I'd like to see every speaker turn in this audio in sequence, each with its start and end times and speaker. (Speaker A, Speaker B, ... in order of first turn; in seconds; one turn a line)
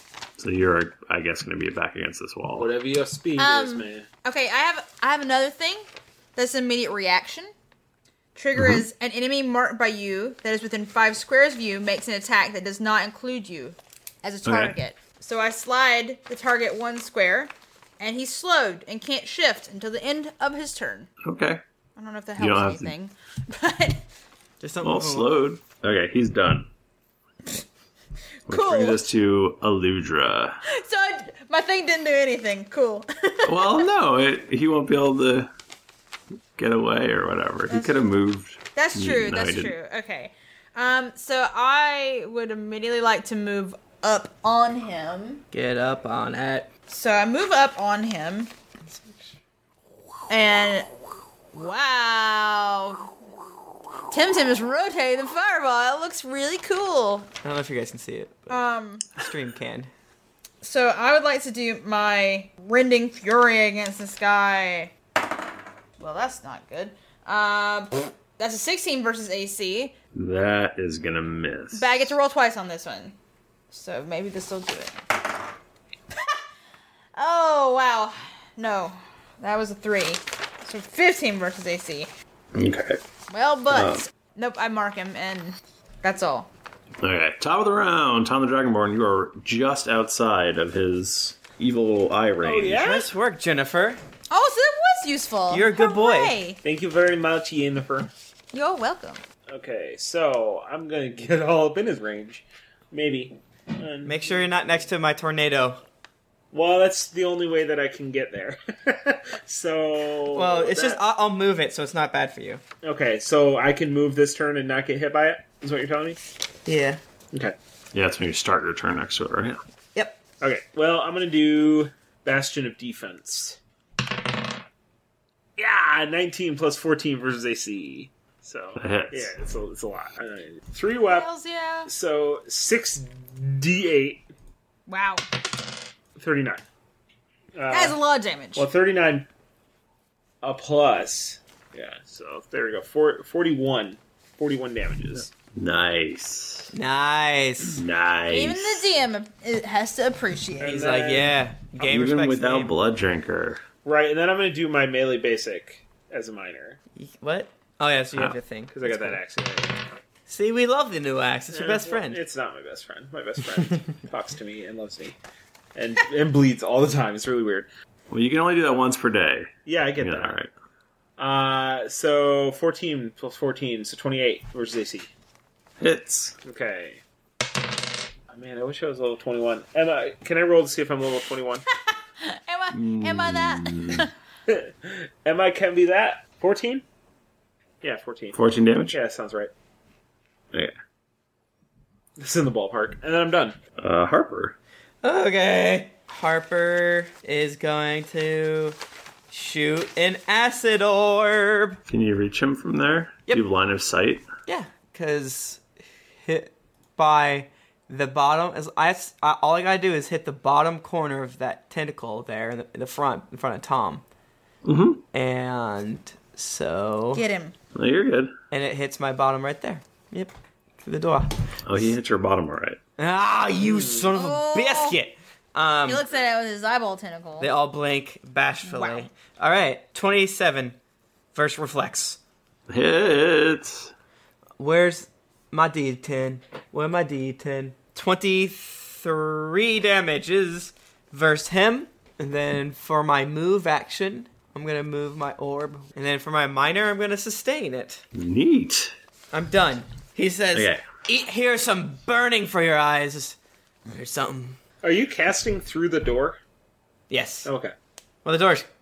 Speaker A: 0.4-2.7
Speaker B: 2.5-4.0
Speaker C: 3.4-7.5
Speaker C: 8.3-21.1
Speaker A: 8.6-8.8
Speaker A: 14.4-14.7
Speaker A: 21.2-21.6
Speaker C: 21.9-24.0
Speaker A: 22.4-22.9
Speaker D: 24.6-25.4
Speaker A: 24.8-26.7
Speaker C: 28.5-29.0
Speaker A: 28.5-30.6
Speaker C: 30.7-33.9
Speaker A: 33.4-35.5
Speaker A: 36.6-39.7
Speaker C: 37.7-38.1
Speaker C: 38.7-45.4
Speaker D: 45.5-46.7
Speaker C: 46.9-48.5
Speaker D: 48.9-49.3
Speaker C: 50.3-50.9
Speaker C: 51.5-53.1
Speaker C: 54.1-57.3
Speaker D: 57.4-58.6
Speaker C: 58.5-59.1
Speaker D: 59.1-59.9
Speaker C: 60.6-64.9
Speaker C: 66.0-69.9
Speaker A: 70.1-72.1
Speaker C: 71.7-73.1
Speaker C: 73.7-75.0
Speaker C: 77.2-82.1
Speaker A: 82.5-83.0
Speaker C: 83.3-86.5
Speaker A: 83.7-84.0
Speaker A: 87.0-92.9
Speaker B: 92.4-93.1
Speaker D: 92.8-94.0
Speaker C: 94.3-96.6
Speaker D: 95.5-96.3
Speaker B: 96.6-98.1
Speaker C: 98.5-99.2
Speaker B: 99.5-104.4
Speaker D: 104.0-105.8
Speaker B: 106.5-111.0
Speaker D: 110.3-112.6
Speaker B: 112.8-116.2
Speaker D: 116.7-117.0
Speaker A: 117.9-119.6
Speaker D: 119.9-120.2
Speaker B: 120.4-123.6
Speaker B: 125.6-131.3
Speaker A: 128.8-129.3
Speaker C: 131.0-131.9
Speaker B: 131.8-134.2
Speaker C: 134.9-135.2
Speaker B: 136.2-136.6
Speaker B: 137.5-138.0
Speaker C: 137.7-138.7
Speaker B: 138.5-139.3
Speaker B: 140.4-145.3
Speaker A: 145.5-146.7
Speaker D: 146.7-147.8
Speaker A: 147.7-148.8
Speaker C: 148.3-150.8
Speaker B: 150.6-151.3
Speaker D: 150.6-152.7
Speaker A: 151.8-153.6
Speaker B: 153.8-156.8
Speaker D: 156.9-159.2
Speaker B: 158.7-159.8
Speaker D: 160.3-162.2
Speaker B: 161.5-165.2
Speaker B: 165.7-167.7
Speaker A: 168.1-170.5
Speaker B: 169.7-170.4
Speaker B: 171.2-175.1
Speaker A: 175.8-176.3
Speaker B: 176.4-177.0
Speaker B: 178.3-181.6
Speaker C: 181.9-184.1
Speaker A: 182.7-184.1
Speaker B: 184.5-186.8
Speaker B: 187.8-188.4
Speaker A: 188.3-189.0
Speaker B: 188.9-189.5
Speaker B: 192.2-193.6
Speaker A: 193.8-194.5
Speaker D: 195.0-198.8
Speaker D: 199.3-201.8
Speaker A: 201.9-204.2
Speaker D: 204.4-205.6
Speaker D: 206.2-214.0
Speaker A: 214.6-215.0
Speaker D: 215.1-217.2
Speaker C: 217.1-217.5
Speaker A: 217.7-218.3
Speaker D: 218.5-220.3
Speaker D: 220.8-221.4
Speaker A: 221.7-222.8
Speaker D: 223.0-226.0
Speaker B: 223.6-224.1
Speaker C: 224.1-224.9
Speaker C: 225.8-227.5
Speaker D: 227.4-230.8
Speaker C: 228.6-229.1
Speaker D: 231.3-232.2
Speaker A: 232.7-233.9
Speaker D: 234.6-248.0
Speaker A: 248.1-248.9
Speaker D: 249.3-253.3
Speaker A: 250.5-250.8
Speaker D: 253.9-254.6
Speaker B: 254.8-256.4
Speaker D: 257.1-257.5
Speaker B: 257.4-257.7
Speaker D: 258.2-258.7